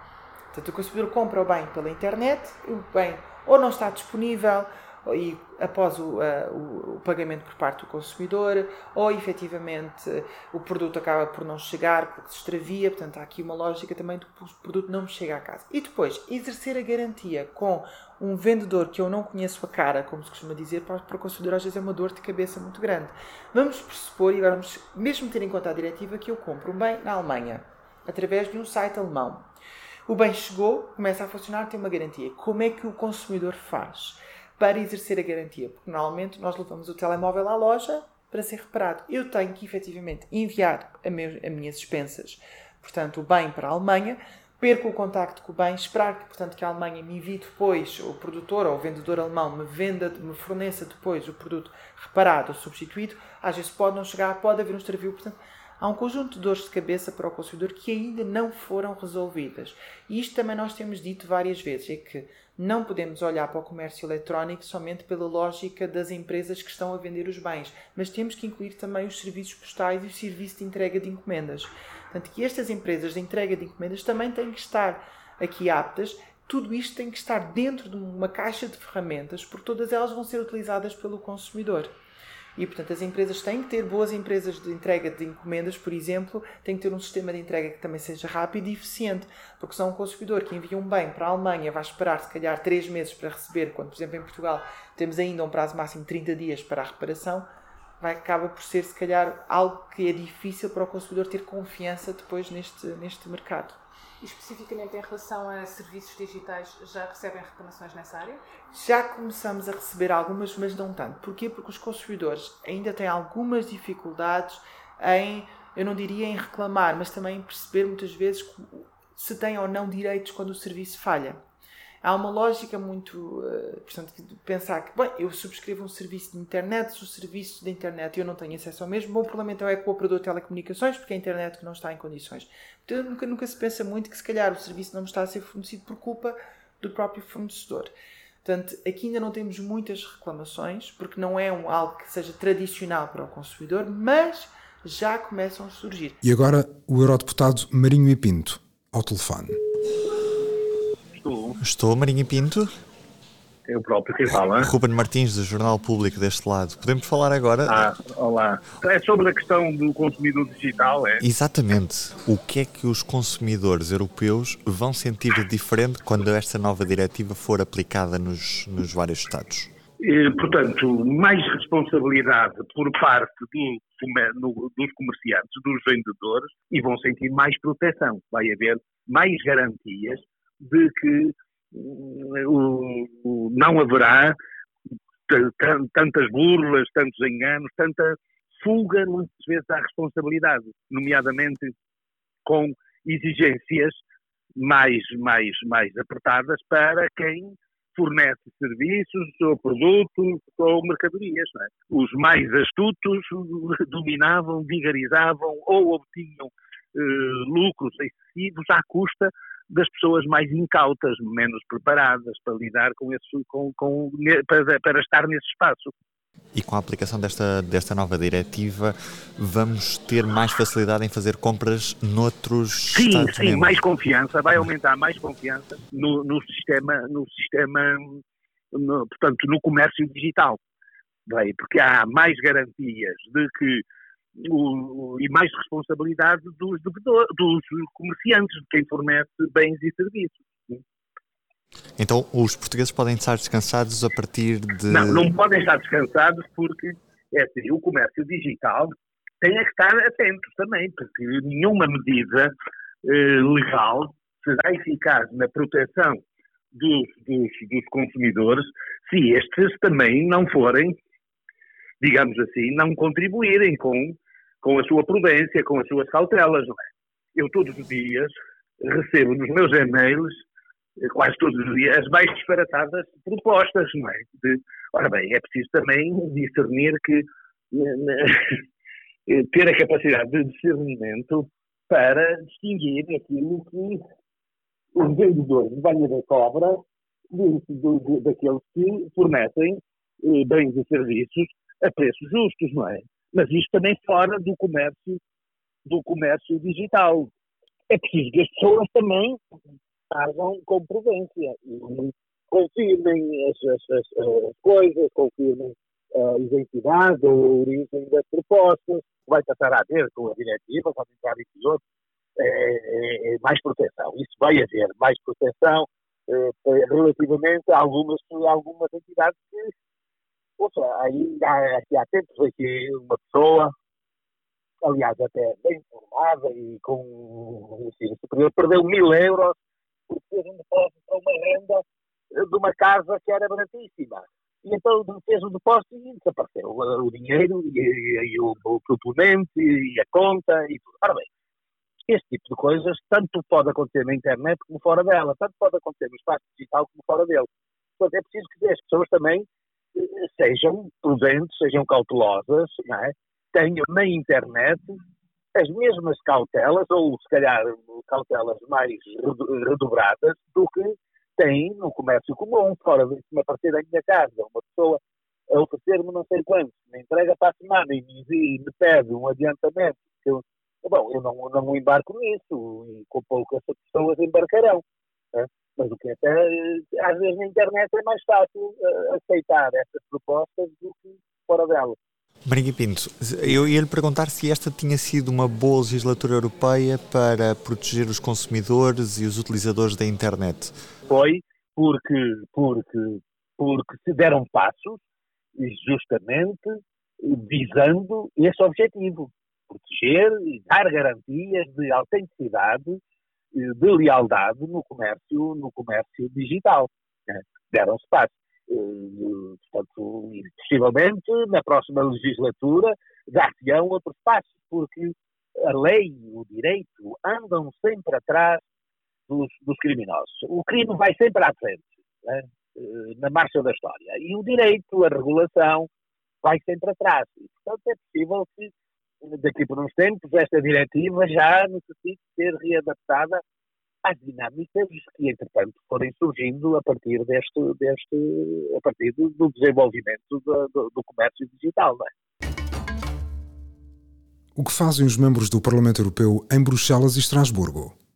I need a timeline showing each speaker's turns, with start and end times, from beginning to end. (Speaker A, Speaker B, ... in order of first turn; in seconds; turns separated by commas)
Speaker A: 0.5-29.5, Speaker A: 30.1-81.9, Speaker A: 82.5-97.5, Speaker A: 98.0-103.8, Speaker B: 104.2-108.4, Speaker A: 108.7-121.4, Speaker A: 122.0-137.9, Speaker A: 138.4-146.2, Speaker C: 146.2-149.6, Speaker D: 151.1-151.6, Speaker E: 151.6-152.7, Speaker D: 153.7-154.7, Speaker E: 154.6-157.9, Speaker D: 157.7-161.2, Speaker E: 161.2-169.7, Speaker D: 170.0-184.4, Speaker D: 185.3-191.7, Speaker D: 192.4-194.0, Speaker D: 194.6-215.9, Speaker E: 216.5-223.8, Speaker D: 222.9-230.6, Speaker D: 231.3-233.8, Speaker D: 234.4-240.8, Speaker E: 242.0-245.3, Speaker D: 244.9-252.5, Speaker D: 253.0-261.0, Speaker D: 262.0-270.4, Speaker D: 271.0-278.6, Speaker D: 279.3-284.0, Speaker D: 284.9-295.2, Speaker D: 295.9-297.3, Speaker D: 297.9-299.4, Speaker D: 300.1-311.8, Speaker D: 312.4-319.7, Speaker D: 320.6-323.7, Speaker D: 324.8-331.8, Speaker D: 332.3-341.3, Speaker D: 342.1-355.0, Speaker D: 355.5-382.0, Speaker E: 382.4-390.7, Speaker D: 391.1-395.0, Speaker D: 395.6-403.0, Speaker D: 403.5-418.6, Speaker D: 419.3-425.9, Speaker D: 426.4-428.7, Speaker D: 429.2-433.4, Speaker D: 434.0-442.1, Speaker C: 444.6-447.9